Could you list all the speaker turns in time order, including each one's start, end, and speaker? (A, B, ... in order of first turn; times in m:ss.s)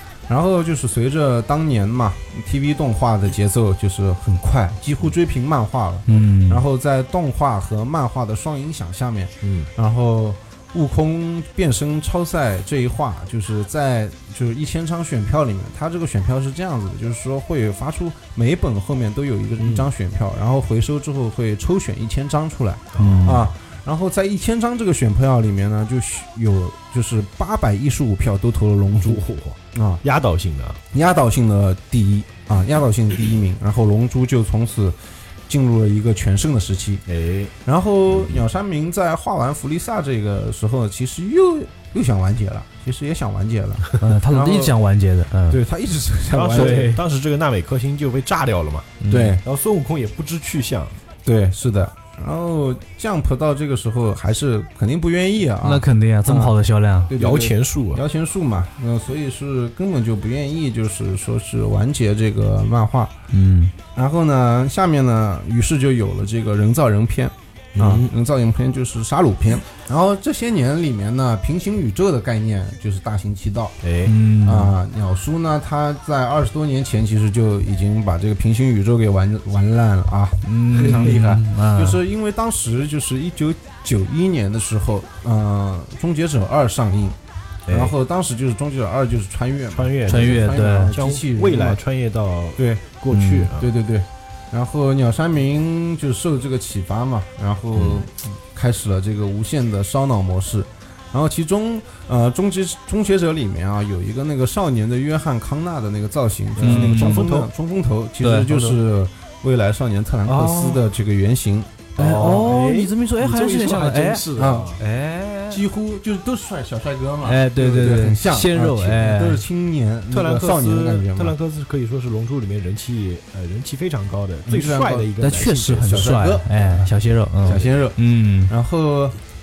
0:00.3-0:30.0 A
0:06.1-0:06.6 B
0:09.4-0:09.7 C
0:19.6-0:19.9 C
0:22.9-0:23.5 C
0:23.0-0:23.5 B
0:28.9-0:30.8 C
0:30.9-0:37.0 A
0:37.1-0:37.5 C
0:37.6-0:44.8 A
0:38.1-0:38.4 C
0:44.0-0:45.6 B
0:45.5-0:46.9 A
0:46.3-0:51.0 C
0:46.5-0:47.0 B
0:49.0-0:49.4 B
0:49.1-0:49.4 A
0:51.2-0:56.5 A
0:55.6-0:57.1 B
0:57.1-1:03.1 A
0:57.2-0:58.0 C
1:03.3-1:03.7 B
1:04.0-1:13.8 A
1:07.8-1:08.1 C
1:13.8-1:14.2 C
1:14.0-1:14.8 B
1:14.4-1:27.2 A
1:20.4-1:22.0 B
1:27.7-1:28.0 C
1:27.7-1:31.8 A
1:29.7-1:33.7 C
1:30.1-1:30.9 B
1:32.6-1:32.8 A
1:33.1-1:33.5 B
1:33.5-1:51.8 A
1:37.8-1:38.0 C
1:46.6-1:47.5 C
1:46.6-1:47.3 B
1:48.2-1:48.8 B
1:50.3-1:50.8 C
1:52.0-1:54.8 C
1:52.0-1:55.6 B
1:54.4-1:54.8 A
1:55.5-2:01.4 A
1:57.2-1:59.4 B
2:00.1-2:06.8 C
2:04.5-2:05.1 A
2:05.2-2:08.5 B
2:05.8-2:06.8 A
2:07.4-2:09.2 A